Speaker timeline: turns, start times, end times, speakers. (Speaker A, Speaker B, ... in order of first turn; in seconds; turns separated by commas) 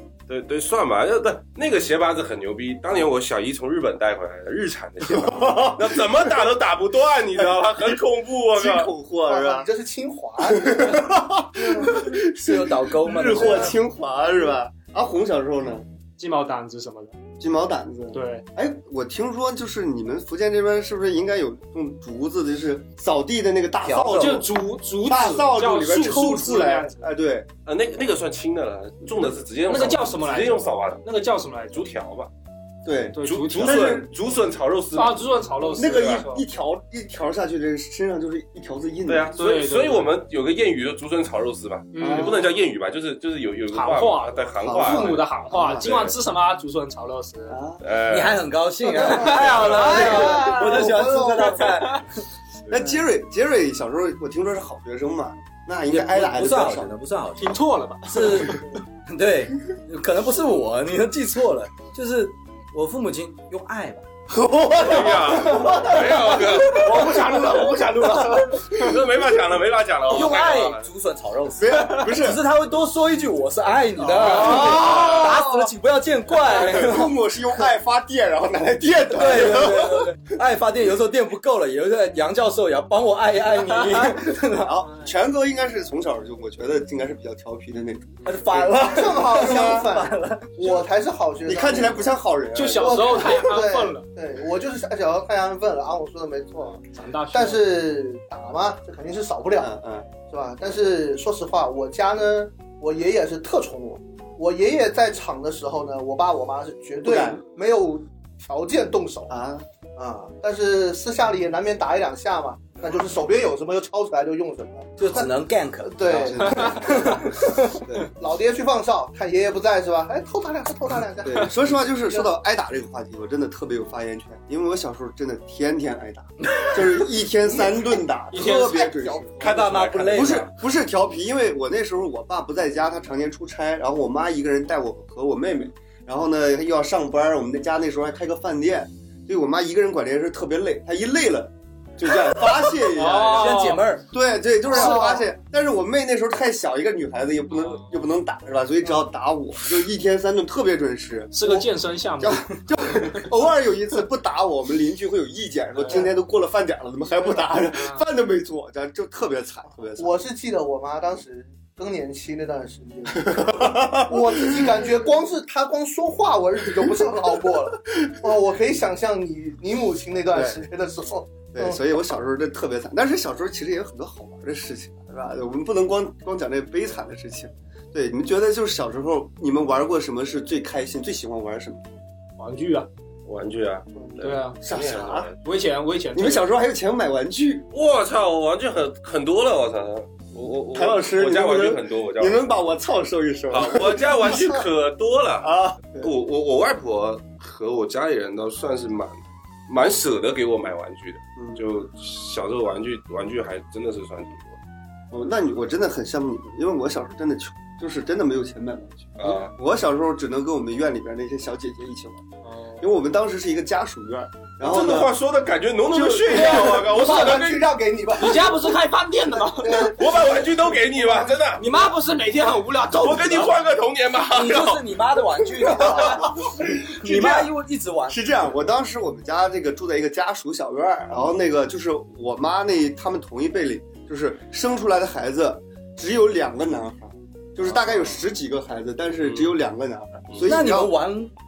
Speaker A: 0.3-8.9, Speaker B: 5.0-6.2, Speaker B: 8.5-9.7, Speaker C: 9.2-12.0, Speaker B: 10.4-15.8, Speaker D: 12.3-13.8, Speaker E: 16.2-17.1, Speaker B: 17.4-27.5, Speaker E: 18.1-18.4, Speaker D: 23.8-24.4, Speaker E: 24.1-27.0, Speaker A: 27.6-31.0, Speaker E: 29.6-31.9, Speaker A: 31.7-32.3, Speaker B: 32.8-34.1, Speaker E: 33.1-34.0, Speaker A: 33.2-36.3, Speaker E: 34.9-36.4, Speaker B: 35.7-39.3, Speaker A: 39.1-46.1, Speaker E: 39.3-40.1, Speaker E: 41.9-42.5, Speaker C: 42.0-42.5, Speaker E: 43.7-47.6, Speaker B: 44.6-45.9, Speaker B: 47.5-47.8, Speaker A: 47.8-48.4, Speaker D: 48.1-51.7, Speaker E: 48.9-52.0, Speaker B: 49.6-52.0, Speaker C: 49.9-51.1, Speaker B: 52.7-56.9, Speaker D: 55.9-64.0, Speaker E: 57.4-58.5, Speaker B: 64.3-68.9, Speaker A: 64.8-67.2, Speaker E: 66.6-68.4, Speaker A: 68.6-70.8, Speaker D: 70.1-77.1, Speaker B: 71.5-72.4, Speaker B: 74.0-75.7, Speaker A: 74.3-75.2, Speaker E: 74.4-75.1, Speaker B: 76.3-80.2, Speaker D: 79.1-84.8, Speaker B: 84.6-90.0, Speaker D: 88.2-90.8, Speaker C: 88.8-92.2, Speaker B: 91.4-93.5, Speaker E: 92.5-94.0, Speaker C: 92.8-109.3, Speaker E: 96.9-97.7, Speaker B: 99.6-100.1, Speaker B: 107.0-107.4, Speaker B: 109.3-109.6, Speaker C: 110.0-115.3, Speaker D: 115.0-117.8, Speaker C: 115.8-117.4, Speaker B: 116.1-117.2, Speaker B: 117.8-118.1, Speaker C: 118.0-122.3, Speaker B: 121.2-129.3, Speaker D: 126.5-126.8, Speaker C: 127.4-129.6, Speaker E: 128.3-128.9, Speaker A: 129.4-130.3, Speaker D: 129.4-130.5, Speaker B: 130.1-143.5, Speaker E: 142.8-143.9, Speaker D: 143.3-144.0, Speaker B: 144.1-151.6, Speaker C: 144.7-145.3, Speaker E: 147.6-147.9, Speaker E: 151.3-153.2, Speaker B: 152.2-160.1, Speaker E: 155.8-156.0, Speaker E: 157.7-158.0, Speaker C: 160.0-171.8, Speaker B: 163.1-164.8, Speaker B: 170.3-170.6, Speaker B: 171.5-181.8, Speaker E: 182.4-182.9, Speaker A: 183.2-185.3, Speaker E: 184.2-184.6, Speaker B: 184.6-185.3, Speaker E: 185.4-186.4, Speaker B: 186.1-187.7, Speaker A: 187.7-192.4, Speaker B: 190.7-194.6, Speaker A: 193.5-204.6, Speaker B: 195.4-196.1, Speaker B: 201.4-201.6, Speaker B: 205.1-212.2, Speaker A: 209.2-209.5, Speaker B: 212.8-215.2, Speaker A: 214.6-217.7, Speaker B: 215.9-216.9, Speaker C: 216.4-218.5, Speaker E: 218.2-220.1, Speaker C: 219.6-220.2, Speaker A: 219.8-221.6, Speaker E: 221.6-223.6, Speaker A: 223.0-225.4, Speaker D: 224.2-228.2, Speaker B: 225.7-227.5, Speaker B: 228.1-241.0, Speaker A: 239.2-239.6, Speaker D: 240.4-241.3